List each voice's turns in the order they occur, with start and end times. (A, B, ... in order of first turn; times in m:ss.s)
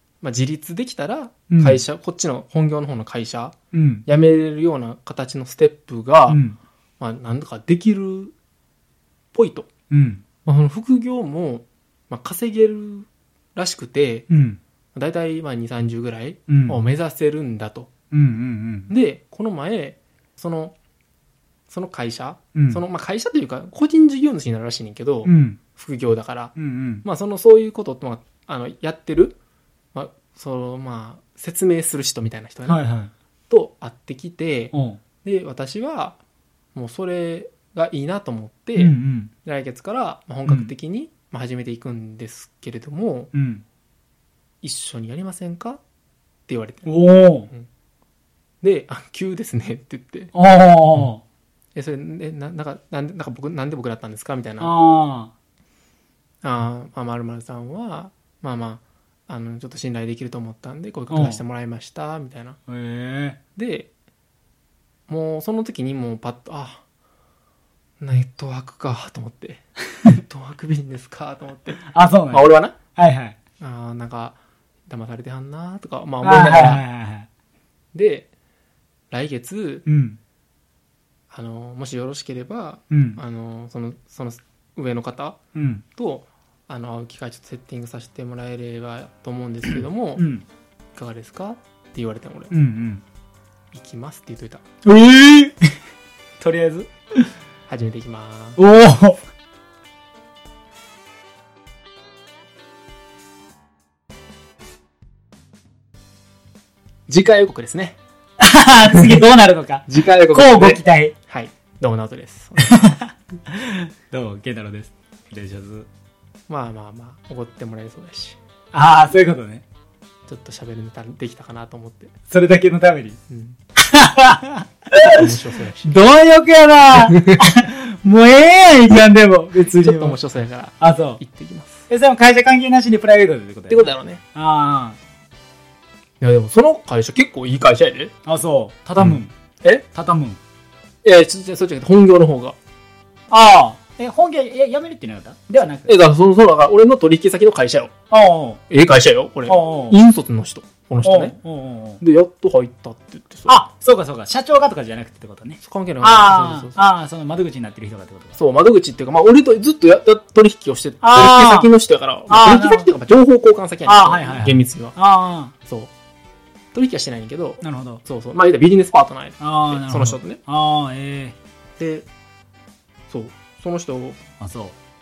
0:00.2-0:03.5 A
0:01.5-0:01.8 B
0:03.7-0:04.0 B
0:04.0-0:06.4 A
0:06.3-0:06.6 B
0:07.0-0:08.3 A
0:09.3-0:09.7 A
0:09.9-0:10.2 B
0:10.4-0:14.3 A
0:14.3-0:14.6 B
0:14.9-0:17.9 A
0:16.5-0:16.8 B
0:18.1-0:18.9 B
0:18.9-0:20.7 A
0:21.7-0:29.4 A
0:22.5-0:22.8 B
0:25.2-0:25.6 B
0:26.6-0:27.0 B
0:29.9-0:32.8 A
0:32.6-0:33.1 B
0:33.5-0:36.2 A
0:34.7-0:35.0 B
0:36.7-0:43.3 A
0:38.8-0:39.3 B
0:40.4-0:40.7 B
0:43.3-0:43.6 B
0:44.6-0:45.8 A
0:46.5-0:46.9 A
0:46.8-0:47.5 B
0:48.6-0:50.3 A
0:50.3-0:51.2 B
0:51.7-0:54.7 A
0:54.6-0:55.3 B
0:56.4-1:02.6 A
1:01.1-1:01.4 B
1:02.7-1:03.4 B
1:03.6-1:03.9 A
1:05.1-1:06.8 A
1:08.0-1:12.8 A
1:11.9-1:12.4 B
1:13.0-1:13.4 B
1:13.6-1:14.4 A
1:14.9-1:16.8 A
1:16.2-1:17.3 B
1:17.9-1:18.3 A
1:19.1-1:19.8 A
1:19.8-1:20.2 B
1:21.3-1:25.4 A
1:22.9-1:23.2 B
1:25.5-1:25.8 B
1:25.9-1:30.3 A
1:29.7-1:30.4 B
1:30.9-1:32.5 A
1:32.5-1:33.0 B
1:33.7-1:34.6 A
1:34.8-1:35.7 B
1:36.4-1:37.2 B
1:37.7-1:38.6 A
1:38.6-1:39.2 B
1:47.1-1:48.0 A
1:48.4-1:51.1 B
1:48.9-1:49.2 A
1:49.9-1:53.0 A
1:52.6-1:55.9 B
1:56.5-1:58.4 A
1:58.7-1:59.6 B
2:00.3-2:02.1 A
2:02.3-2:03.2 B
2:03.3-2:03.6 A
2:03.8-2:10.2 B
2:05.0-2:06.0 A
2:06.9-2:07.4 A
2:09.7-2:11.9 A
2:10.8-2:11.2 B
2:11.9-2:15.0 B
2:13.7-2:14.2 A
2:16.2-2:18.1 A
2:18.2-2:19.3 B
2:19.0-2:19.8 A
2:19.9-2:20.4 B
2:21.0-2:22.6 A
2:23.3-2:25.9 B
2:25.8-2:27.9 A
2:28.1-2:28.6 B
2:28.7-2:31.4 A
2:29.5-2:30.0 B
2:31.0-2:32.0 B
2:32.0-2:33.6 A
2:33.5-2:38.4 B
2:35.6-2:36.8 A
2:38.3-2:45.0 A
2:41.0-2:41.7 B
2:42.3-2:42.9 B
2:43.8-2:45.5 B
2:45.6-2:45.9 A
2:46.7-2:50.4 A
2:47.6-2:48.0 B
2:49.4-2:51.4 B
2:51.8-2:52.1 A
2:53.1-2:54.2 A
2:54.4-2:54.7 B